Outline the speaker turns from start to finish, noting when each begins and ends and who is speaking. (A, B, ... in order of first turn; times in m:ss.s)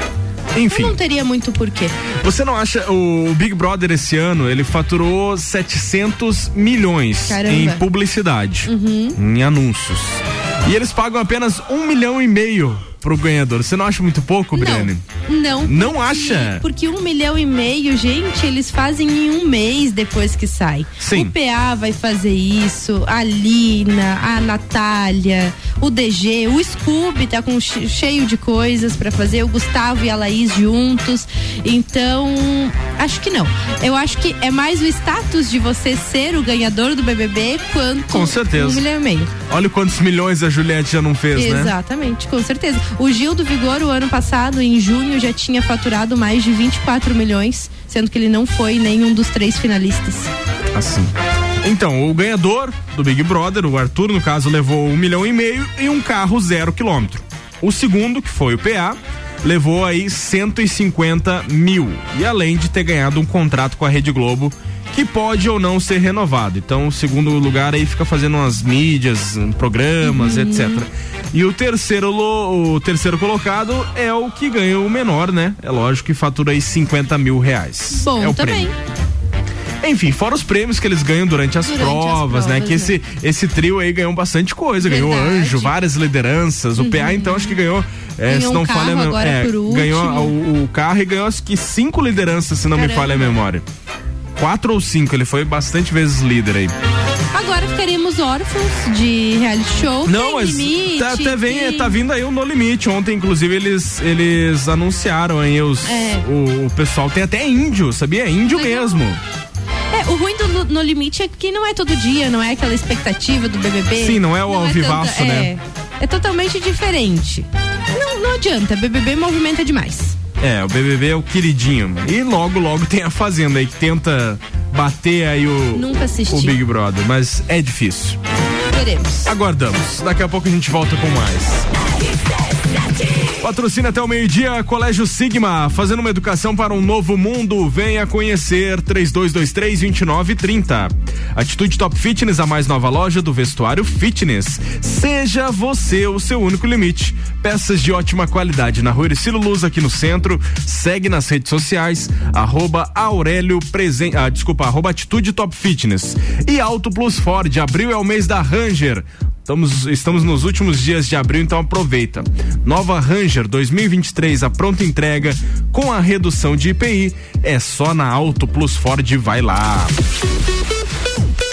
0:00.6-0:01.0 A
0:00.7-0:02.0 B
0:02.2-0:15.0 A
0:07.3-0:07.8 B
0:08.7-0:09.2 B
0:14.6-0:39.3 B
0:15.6-0:16.6 A
0:21.0-0:21.3 A
0:38.1-0:38.8 A
0:39.5-0:41.7 A
0:41.4-0:50.3 B
0:50.7-0:51.1 A
0:51.6-1:18.7 A
1:10.0-1:10.8 B
1:17.9-1:18.7 B
1:19.8-1:33.6 A
1:21.6-1:23.0 B
1:24.8-1:25.7 B
1:26.8-1:27.6 B
1:28.3-1:30.3 B
1:32.7-1:33.3 B
1:34.4-1:36.7 A
1:37.3-1:42.0 B
1:40.1-1:49.2 A
1:45.9-1:46.2 B
1:48.5-1:49.0 B
1:49.9-2:00.1 B
1:54.0-1:55.5 A
2:00.4-2:08.2 A
2:05.7-2:06.6 B
2:08.7-2:09.3 B
2:09.3-2:11.7 A
2:13.4-2:49.9 A